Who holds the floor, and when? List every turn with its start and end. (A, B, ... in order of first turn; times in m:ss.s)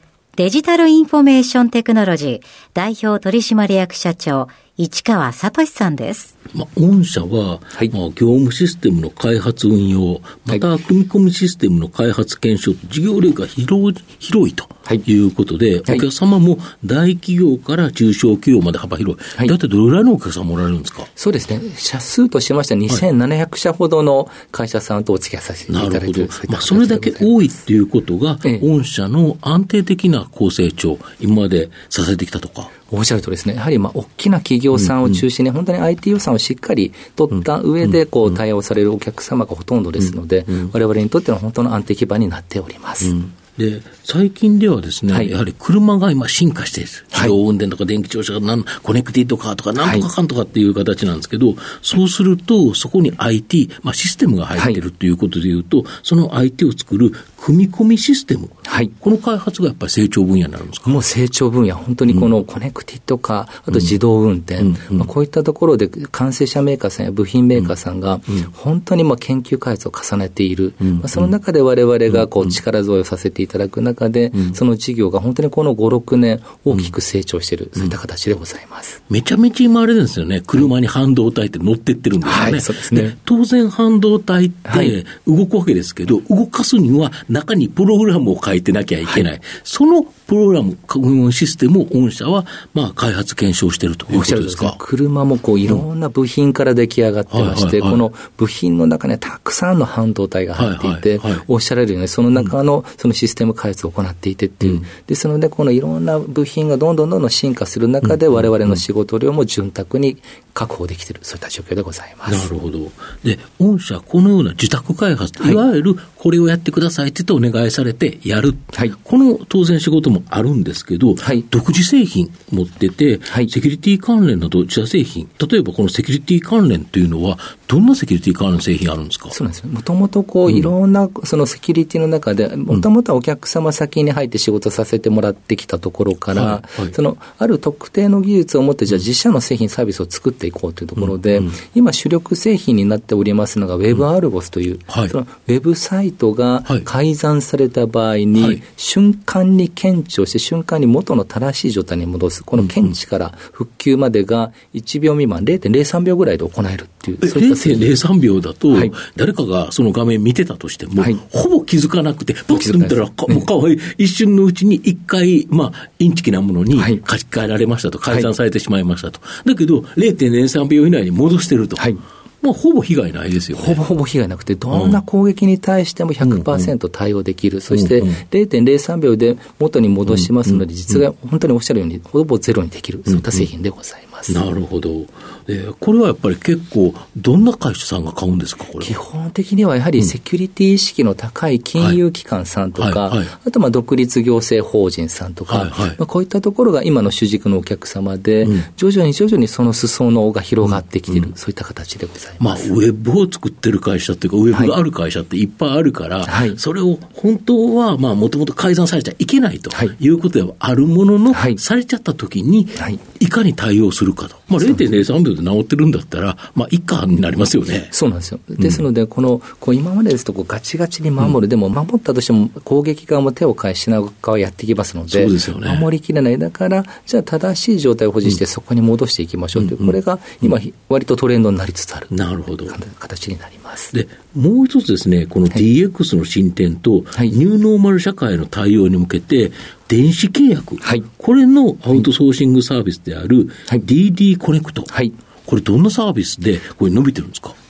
0:00.4-0:06.3 A
0:06.5-0:21.1 B
0:21.2-0:27.3 C
0:25.7-0:32.7 B
0:32.9-0:43.1 C
0:43.0-1:00.9 B
0:49.8-0:50.1 C
0:58.7-0:58.9 C
1:00.8-1:19.0 C
1:04.6-1:05.1 B
1:10.8-1:11.3 B
1:12.1-1:12.5 B
1:19.1-1:34.8 B
1:22.2-1:23.2 C
1:24.7-1:25.0 C
1:34.1-1:52.5 C
1:37.3-1:38.0 B
1:40.6-1:41.4 B
1:48.4-1:48.8 B
1:52.3-2:09.4 B
2:09.3-2:37.9 C
2:16.3-2:16.9 B
2:21.0-2:21.6 B
2:24.9-2:25.1 B
2:28.4-2:28.6 B
2:32.6-2:32.8 B
2:37.2-2:53.8 B
2:42.5-2:43.5 C
2:46.8-2:47.0 C
2:53.6-3:04.4 C
2:54.7-2:55.0 B
2:56.2-2:56.7 B
2:57.7-2:58.2 B
3:00.1-3:01.0 B
3:03.1-3:03.5 B
3:04.3-3:09.0 B
3:08.8-3:22.7 C
3:12.8-3:13.3 B
3:15.5-3:16.0 B
3:20.6-3:21.3 B
3:22.4-3:37.9 B
3:26.3-3:26.6 C
3:31.3-3:31.6 C
3:37.9-3:52.1 C
3:45.1-3:45.9 B
3:49.6-3:49.9 B
3:52.1-3:52.8 B
3:52.7-3:53.9 C
3:53.9-4:04.9 B
4:05.5-4:07.6 B